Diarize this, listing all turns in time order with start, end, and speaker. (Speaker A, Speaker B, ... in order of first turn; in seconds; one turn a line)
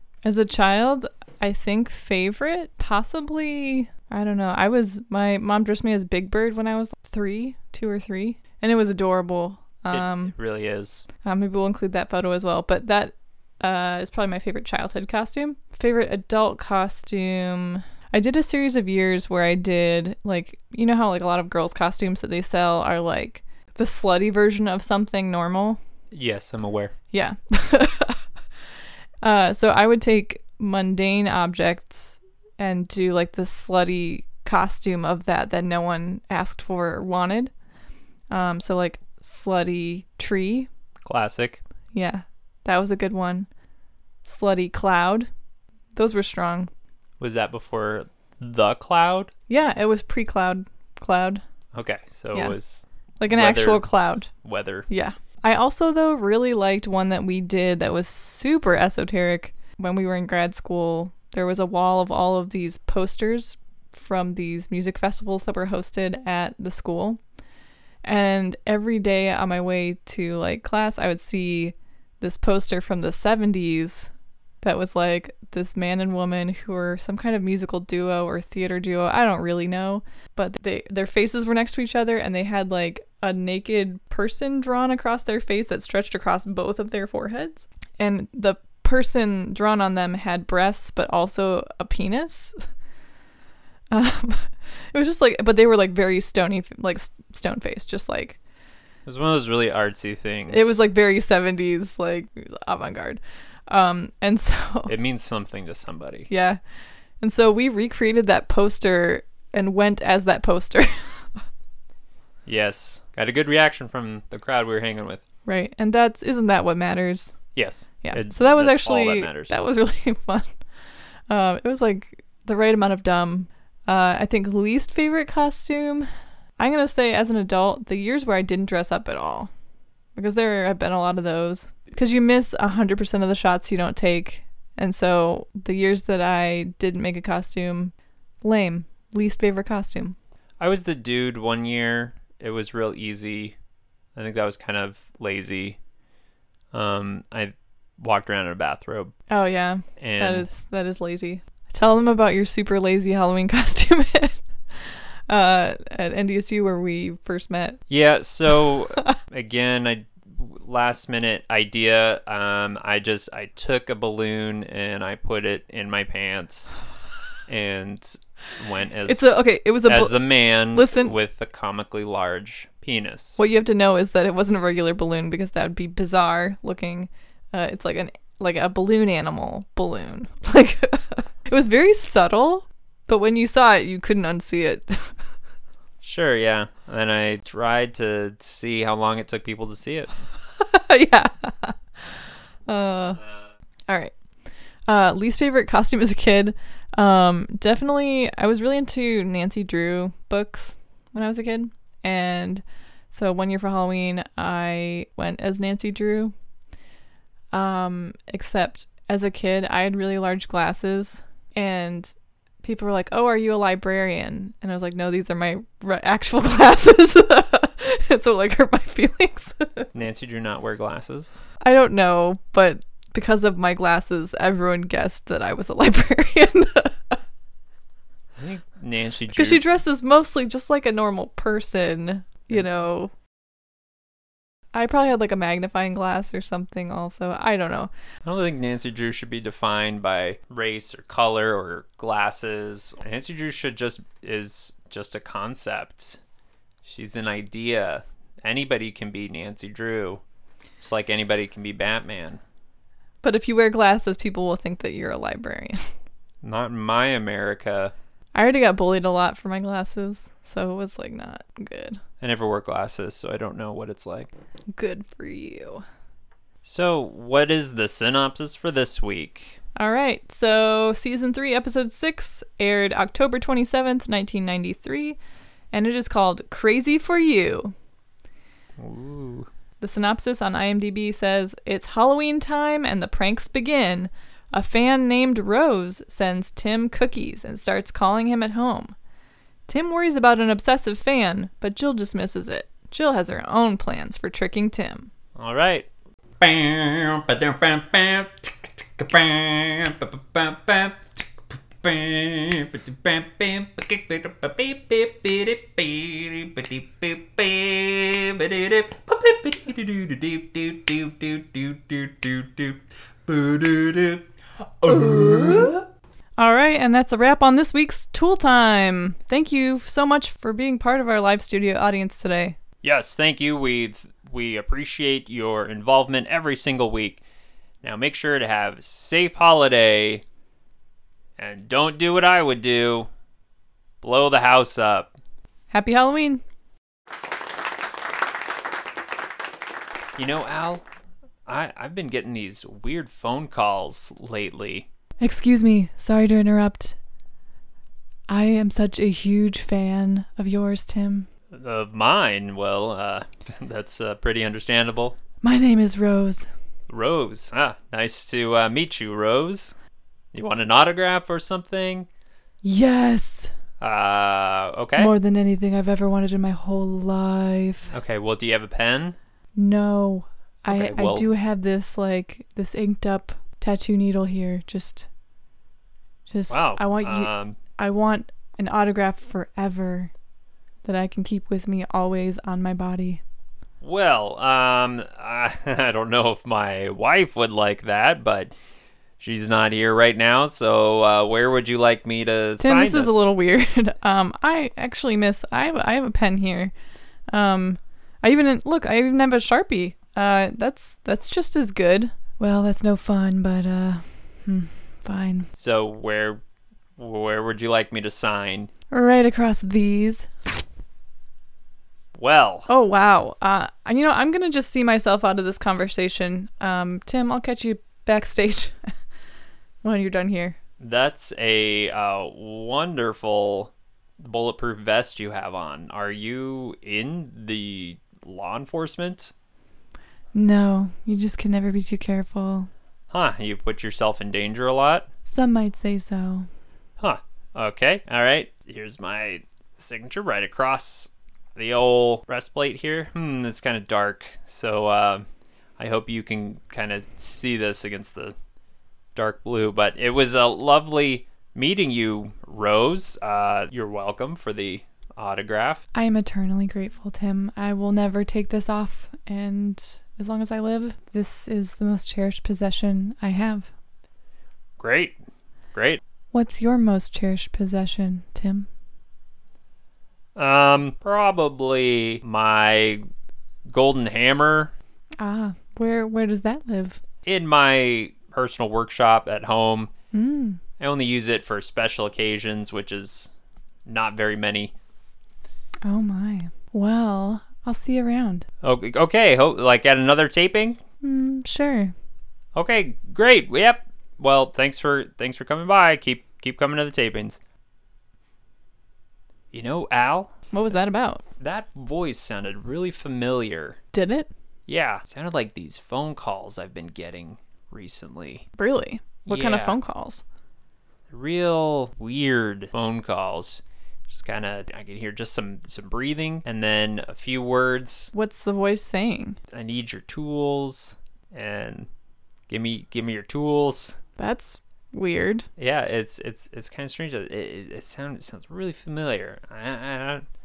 Speaker A: 0.2-10.3
Speaker B: 9.9-11.1
Speaker A: 11.2-25.8
Speaker B: 26.1-26.9
Speaker A: 27.1-28.2
Speaker A: 29.2-37.5
Speaker A: 38.3-40.7
Speaker B: 41.0-41.6
Speaker A: 41.9-43.5
Speaker A: 44.2-45.3
Speaker A: 45.9-46.7
Speaker B: 47.2-49.3
Speaker A: 49.5-51.4
Speaker B: 51.7-54.9
Speaker A: 53.2-54.3
Speaker A: 54.9-67.2
Speaker A: 68.0-74.1
Speaker A: 74.6-92.5
Speaker A: 93.9-98.4
Speaker B: 99.0-100.8
Speaker A: 100.5-104.9
Speaker B: 104.9-106.3
Speaker A: 106.3-106.6
Speaker A: 107.2-111.3
Speaker B: 112.5-115.2
Speaker A: 115.5-117.3
Speaker B: 117.5-119.5
Speaker A: 118.0-120.5
Speaker A: 121.3-126.1
Speaker A: 126.6-129.5
Speaker A: 130.2-140.2
Speaker B: 140.6-143.6
Speaker B: 144.1-145.8
Speaker B: 146.7-149.1
Speaker A: 149.3-157.8
Speaker B: 150.0-150.5
Speaker B: 157.9-166.7
Speaker A: 158.5-159.2
Speaker B: 167.5-173.4
Speaker A: 169.1-170.2
Speaker A: 170.7-171.1
Speaker A: 173.4-185.2
Speaker B: 186.0-190.1
Speaker A: 190.6-193.2
Speaker A: 193.9-194.1
Speaker A: 194.9-206.3
Speaker A: 207.5-219.9
Speaker B: 219.9-221.4
Speaker A: 221.6-227.2
Speaker B: 228.4-229.6
Speaker A: 229.3-233.1
Speaker A: 234.7-237.9
Speaker B: 238.2-246.2
Speaker B: 246.8-250.2
Speaker B: 250.8-252.4
Speaker A: 253.2-255.8
Speaker B: 256.4-257.9
Speaker A: 258.3-262.0
Speaker B: 262.2-264.3
Speaker A: 264.8-265.8
Speaker B: 266.6-269.6
Speaker A: 269.8-275.2
Speaker A: 275.7-277.7
Speaker B: 278.8-279.5
Speaker A: 279.8-288.9
Speaker A: 289.7-295.1
Speaker B: 295.4-295.9
Speaker B: 296.4-314.3
Speaker B: 314.8-315.8
Speaker A: 316.4-322.6
Speaker B: 322.8-327.2
Speaker B: 327.8-330.2
Speaker B: 331.4-333.1
Speaker B: 334.0-335.1
Speaker A: 335.7-336.4
Speaker B: 340.1-340.8
Speaker B: 341.4-344.9
Speaker A: 345.2-347.0
Speaker A: 348.3-351.3
Speaker B: 351.5-355.2
Speaker A: 355.4-356.5
Speaker B: 356.9-359.7
Speaker B: 360.3-362.1
Speaker A: 362.6-363.5
Speaker B: 363.8-365.1
Speaker A: 365.0-367.9
Speaker B: 367.9-369.2
Speaker A: 369.6-375.1
Speaker B: 370.7-371.3
Speaker A: 376.3-380.1
Speaker B: 376.5-377.6
Speaker A: 380.8-383.2
Speaker B: 383.8-388.5
Speaker B: 389.2-393.2
Speaker A: 392.6-396.7
Speaker A: 397.3-405.5
Speaker B: 405.6-406.4
Speaker B: 407.0-408.7
Speaker A: 408.9-410.3
Speaker B: 412.1-412.7
Speaker A: 412.7-418.9
Speaker A: 419.8-420.6
Speaker B: 420.8-429.3
Speaker A: 430.3-432.7
Speaker B: 433.1-435.1
Speaker A: 435.2-436.5
Speaker B: 437.0-445.2
Speaker B: 445.8-448.3
Speaker B: 449.1-455.8
Speaker A: 455.9-463.7
Speaker B: 464.8-465.2
Speaker B: 465.7-466.0
Speaker A: 466.3-468.7
Speaker B: 470.4-473.0
Speaker B: 473.7-474.7
Speaker A: 475.2-477.0
Speaker B: 477.2-479.9
Speaker A: 480.1-480.6
Speaker B: 480.8-483.3
Speaker B: 483.9-484.7
Speaker A: 485.8-488.4
Speaker B: 488.6-490.8
Speaker A: 491.0-491.9
Speaker B: 492.5-497.4
Speaker B: 499.5-500.3
Speaker A: 500.5-501.2
Speaker B: 501.4-503.8
Speaker A: 503.9-504.3
Speaker B: 504.7-508.4
Speaker A: 508.6-510.2
Speaker B: 509.2-509.8
Speaker B: 511.1-518.1
Speaker A: 518.1-519.4
Speaker B: 519.5-521.9
Speaker B: 522.5-524.0
Speaker A: 524.2-525.5
Speaker B: 525.6-530.2